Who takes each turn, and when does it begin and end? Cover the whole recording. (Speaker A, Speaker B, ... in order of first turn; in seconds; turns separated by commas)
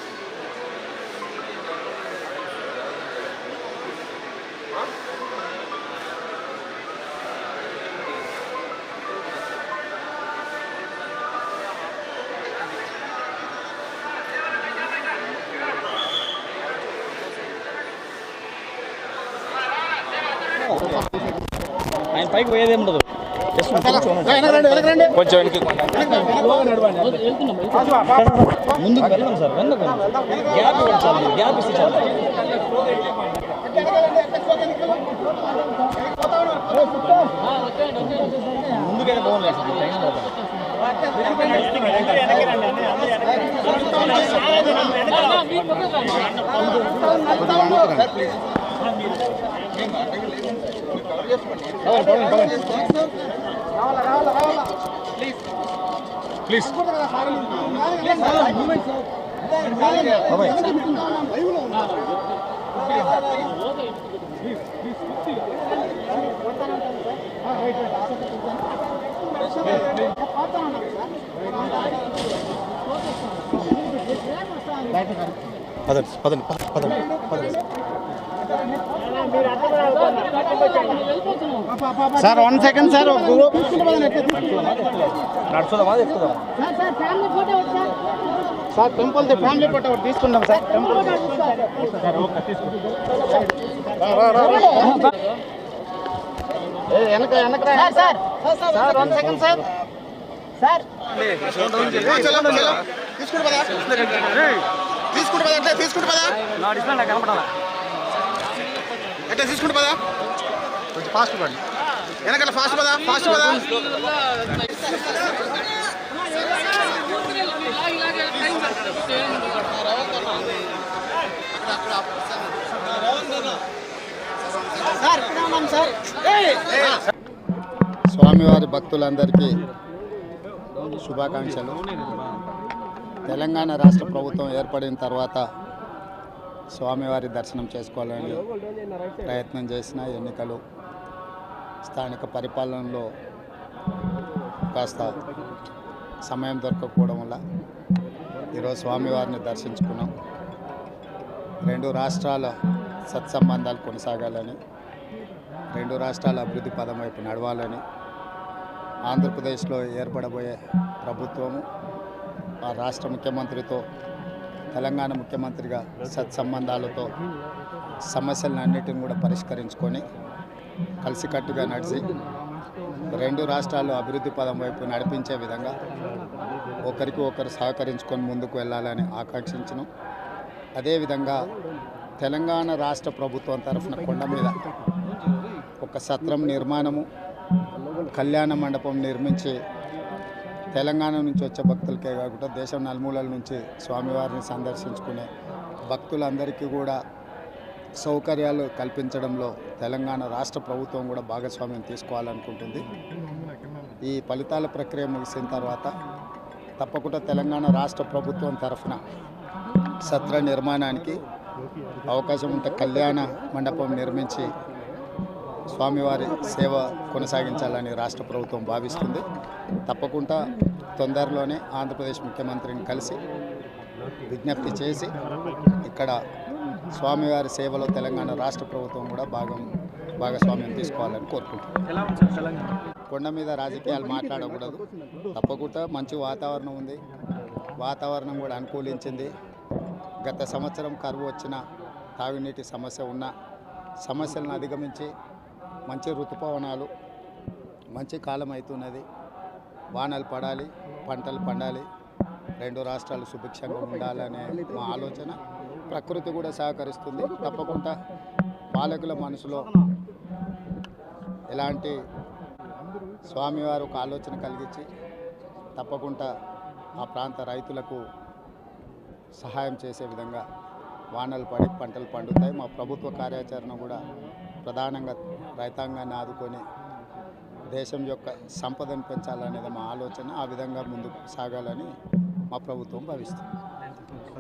Speaker A: 20.8-21.0, Speaker A: 22.1-32.3, Speaker A: 38.1-40.3, Speaker A: 42.0-42.7, Speaker A: 43.8-45.3, Speaker A: 47.3-48.0, Speaker A: 51.9-52.9, Speaker A: 56.5-56.8, Speaker A: 57.9-58.7, Speaker A: 59.9-61.0, Speaker A: 75.9-77.6, Speaker B: 79.8-80.5, Speaker B: 82.2-83.5, Speaker A: 83.3-86.4, Speaker B: 88.8-91.2, Speaker A: 89.2-89.9, Speaker A: 92.1-92.4, Speaker B: 96.9-98.2, Speaker A: 98.8-99.6, Speaker A: 101.3-102.8, Speaker B: 103.4-104.2, Speaker A: 103.5-104.6, Speaker B: 105.2-106.3, Speaker A: 106.3-107.5, Speaker B: 109.3-110.0, Speaker B: 111.0-111.6, Speaker B: 112.3-113.5, Speaker A: 113.3-113.7, Speaker C: 128.1-129.6, Speaker C: 131.0-131.8, Speaker C: 133.3-135.4, Speaker C: 136.7-138.4, Speaker C: 139.2-140.6, Speaker C: 141.9-143.1, Speaker C: 144.7-145.2, Speaker C: 146.3-147.4, Speaker C: 148.5-150.1, Speaker C: 151.7-152.6, Speaker C: 153.1-154.6, Speaker C: 155.7-157.8, Speaker C: 159.1-161.7, Speaker C: 162.7-163.8, Speaker C: 164.7-167.1, Speaker C: 168.1-170.0, Speaker C: 171.0-172.1, Speaker C: 173.1-175.8, Speaker C: 176.8-179.9, Speaker C: 180.8-181.5, Speaker C: 182.2-184.6, Speaker C: 185.8-187.1, Speaker C: 188.1-189.6, Speaker C: 190.7-195.3, Speaker C: 195.9-197.0, Speaker C: 198.0-202.9, Speaker C: 204.1-205.9, Speaker C: 206.8-209.0, Speaker C: 210.0-211.2, Speaker C: 212.1-214.5, Speaker C: 215.7-219.2, Speaker C: 219.9-223.2, Speaker C: 224.3-225.2, Speaker C: 225.8-226.1, Speaker C: 226.9-231.7, Speaker C: 233.1-237.0, Speaker C: 237.8-239.3, Speaker C: 240.3-241.6, Speaker C: 242.2-243.3, Speaker C: 244.1-245.1, Speaker C: 245.9-246.9, Speaker C: 247.9-249.1, Speaker C: 249.9-251.9, Speaker C: 252.6-257.9, Speaker C: 258.7-259.8, Speaker C: 261.5-262.0, Speaker C: 263.2-264.9, Speaker C: 265.8-266.3, Speaker C: 267.0-268.0, Speaker C: 269.4-270.4, Speaker C: 271.1-274.0, Speaker C: 274.6-276.6, Speaker C: 277.7-281.9, Speaker C: 282.5-283.5